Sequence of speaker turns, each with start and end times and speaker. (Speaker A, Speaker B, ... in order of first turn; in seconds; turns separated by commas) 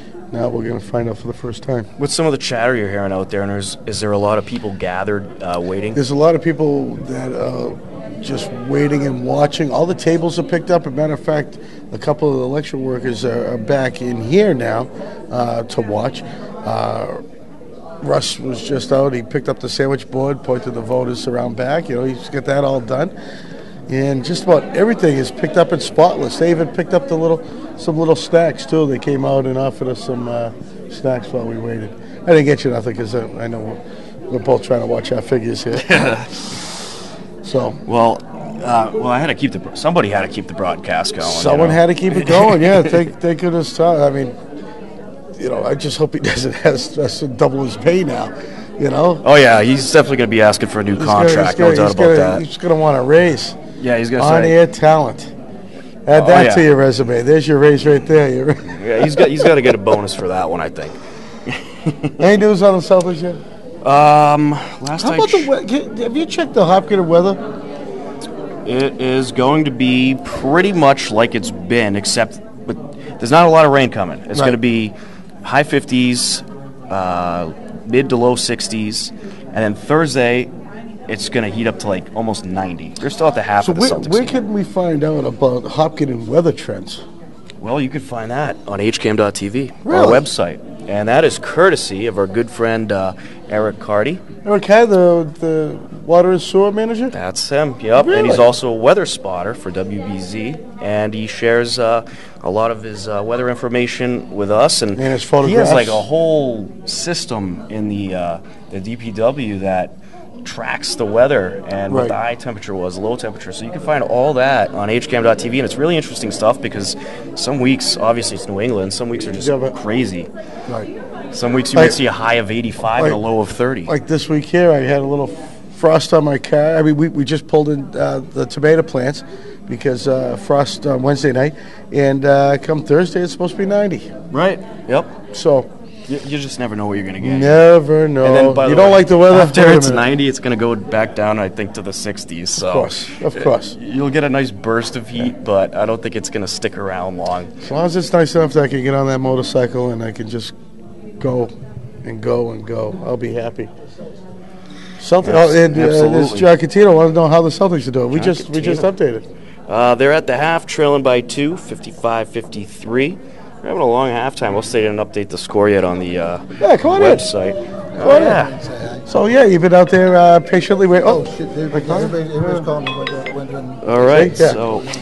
Speaker A: 0.3-1.9, Speaker B: 2.0-6.0, Speaker A: 5.9-17.2, Speaker A: 18.0-23.1, Speaker A: 23.9-36.1, Speaker B: 35.8-36.6, Speaker A: 37.4-37.8, Speaker B: 37.9-43.0, Speaker A: 41.2-44.4, Speaker A: 45.3-49.2, Speaker B: 49.2-52.4, Speaker A: 51.0-53.6, Speaker B: 53.8-54.5, Speaker A: 54.2-55.3, Speaker A: 56.1-59.5, Speaker B: 56.1-56.6, Speaker B: 58.7-62.2, Speaker A: 62.2-63.4, Speaker B: 63.8-65.5, Speaker A: 65.0-67.4, Speaker B: 68.6-80.5, Speaker B: 81.1-84.4, Speaker A: 83.6-87.0, Speaker B: 87.6-94.2, Speaker A: 89.8-90.2, Speaker A: 94.4-97.1, Speaker B: 97.1-120.3, Speaker A: 98.0-98.5, Speaker A: 104.9-106.0, Speaker A: 111.9-112.2, Speaker A: 119.4-119.8, Speaker B: 121.3-123.9, Speaker A: 122.9-123.2, Speaker A: 123.9-134.1, Speaker B: 134.3-135.1, Speaker A: 135.3-135.7, Speaker B: 136.1-137.6, Speaker A: 137.2-140.0, Speaker B: 138.2-147.5, Speaker A: 142.6-143.8, Speaker A: 147.6-150.5, Speaker A: 151.2-151.5, Speaker A: 152.0-153.7, Speaker A: 155.0-159.2, Speaker B: 155.2-156.5, Speaker B: 158.1-158.9, Speaker B: 159.7-168.6, Speaker A: 166.6-167.3, Speaker C: 167.9-169.1, Speaker A: 168.0-168.4, Speaker A: 169.1-172.7, Speaker C: 171.0-174.3, Speaker B: 173.8-174.9, Speaker A: 174.0-174.6